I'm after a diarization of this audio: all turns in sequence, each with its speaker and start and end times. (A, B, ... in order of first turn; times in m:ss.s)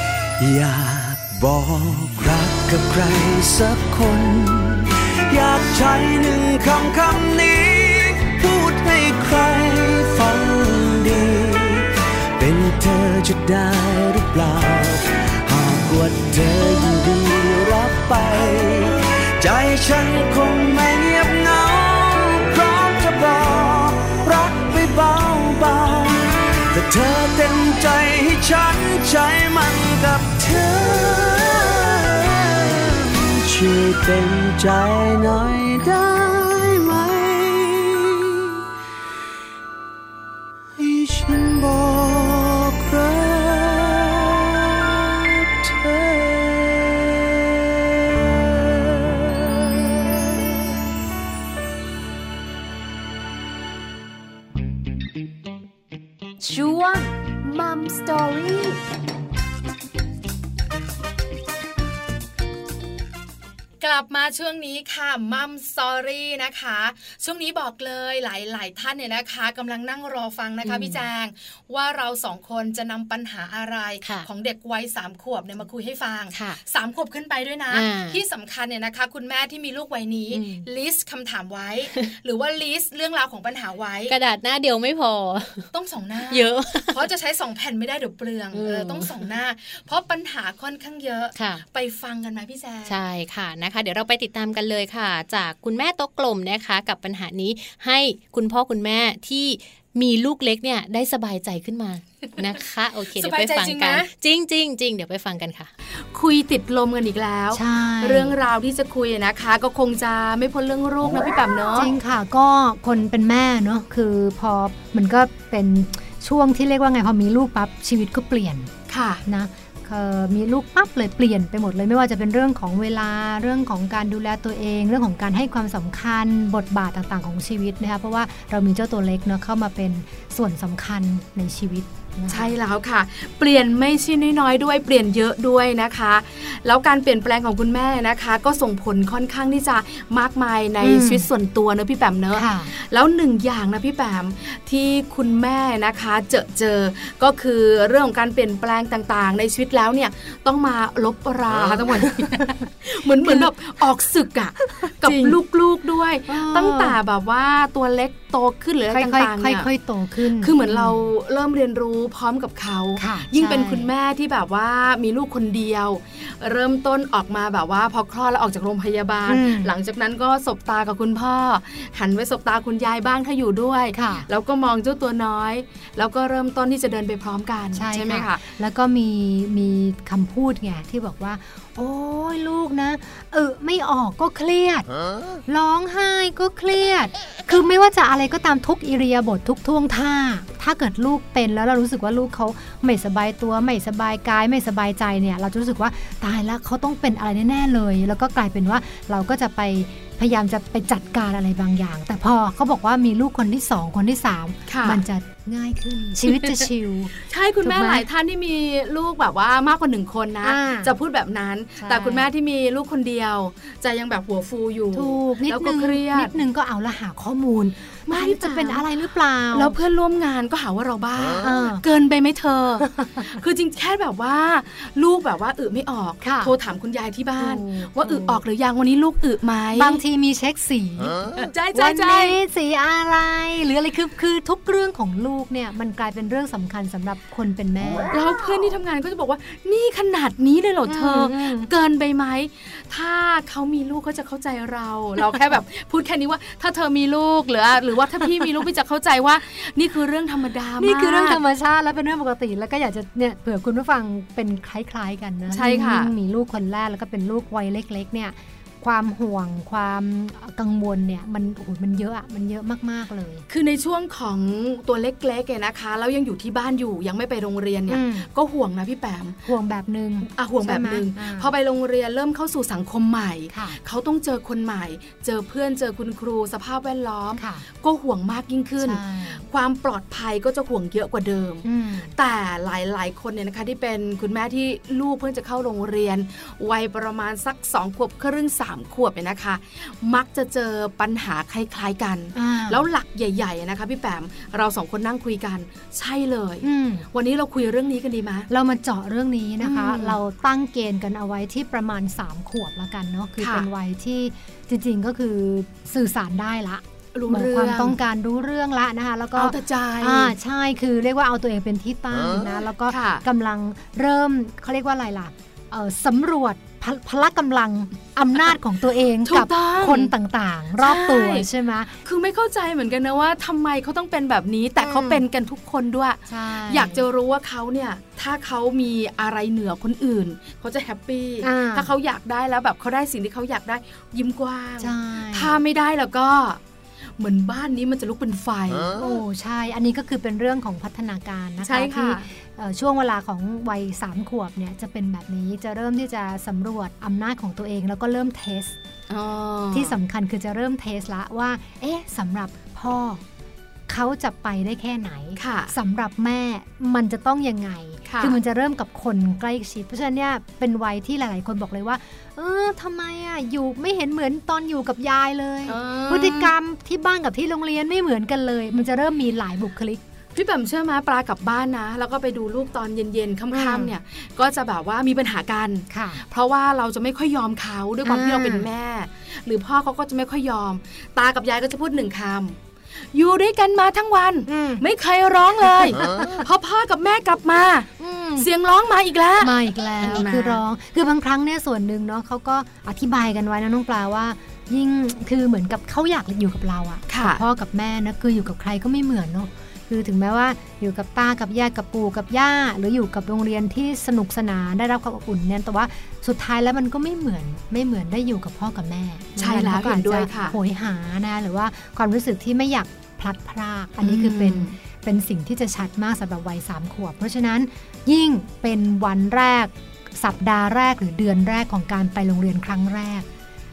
0:00.4-0:38.6 A
0:40.8-0:50.4 A
0:56.4-0:58.8 B
1:03.8-1:24.1 C
1:10.6-1:11.0 D
1:14.0-1:14.3 D
1:16.3-1:16.6 D
1:17.7-1:18.2 D
1:20.3-1:20.7 D
1:24.1-1:25.7 D
1:25.7-1:33.0 C
1:26.3-1:27.0 D
1:28.5-1:29.2 D
1:31.4-1:31.6 D
1:32.9-1:45.7 D
1:43.1-1:44.1 C
1:45.9-1:51.9 C
1:47.5-1:48.4 E
1:51.8-1:58.7 E
1:58.9-1:59.2 C
1:59.2-2:12.5 E
2:12.3-2:39.7 C
2:20.8-2:21.3 E
2:22.3-2:22.7 E
2:31.5-2:31.9 A
2:33.2-2:33.5 E
2:34.8-2:35.4 E
2:36.3-2:37.0 E
2:38.9-2:41.1 E
2:40.2-2:58.4 C
2:43.0-2:43.9 E
2:49.3-2:49.7 E
2:53.9-2:54.3 E
2:57.7-3:04.9 E
3:05.5-3:28.0 E
3:24.7-3:25.0 C
3:26.3-3:26.6 C
3:27.2-3:36.3 C
3:30.4-3:30.9 E
3:31.8-3:32.3 E
3:34.9-3:39.8 E
3:38.1-3:38.8 C
3:39.5-3:50.0 C
3:41.4-3:41.9 E
3:42.8-3:43.4 E
3:46.2-3:46.5 E
3:47.4-3:48.4 E
3:49.7-3:58.1 E
3:51.5-3:52.4 C
3:58.1-4:11.4 C
4:00.9-4:01.7 E
4:10.8-4:23.4 E
4:15.5-4:16.1 C
4:23.5-4:29.4 C
4:27.9-4:28.3 E
4:29.4-4:31.5 E
4:30.2-4:58.5 C
4:33.5-4:33.8 E
4:37.4-4:37.6 E
4:38.8-4:39.4 E
4:41.6-4:42.1 E
4:52.4-4:52.8 E
4:56.6-4:57.1 E
4:58.5-5:22.0 E
4:59.6-5:00.2 C
5:03.4-5:03.7 C
5:07.1-5:08.0 C
5:09.4-5:10.4 C
5:12.9-5:13.2 C
5:19.2-5:20.1 C
5:20.8-5:21.5 C
5:22.0-5:36.6 C
5:24.8-5:25.2 E
5:26.3-5:27.0 E
5:31.4-5:31.9 E
5:34.8-5:35.6 E
5:37.2-5:39.0 C
5:38.9-5:48.8 E
5:41.6-5:42.3 C
5:49.1-5:50.0 C
5:49.7-5:53.2 E
5:53.9-6:10.0 E
5:55.4-5:55.7 C
5:58.1-5:58.4 C
6:05.6-6:06.5 C
6:10.4-6:22.6 C
6:13.5-6:13.9 E
6:15.9-6:16.2 E
6:18.0-6:18.7 E
6:23.1-6:30.6 C
6:24.5-6:24.8 E
6:26.0-6:26.4 E
6:28.0-6:28.5 E
6:29.4-7:03.2 E
6:37.1-6:37.4 C
6:49.4-6:50.6 C
6:54.0-6:54.8 C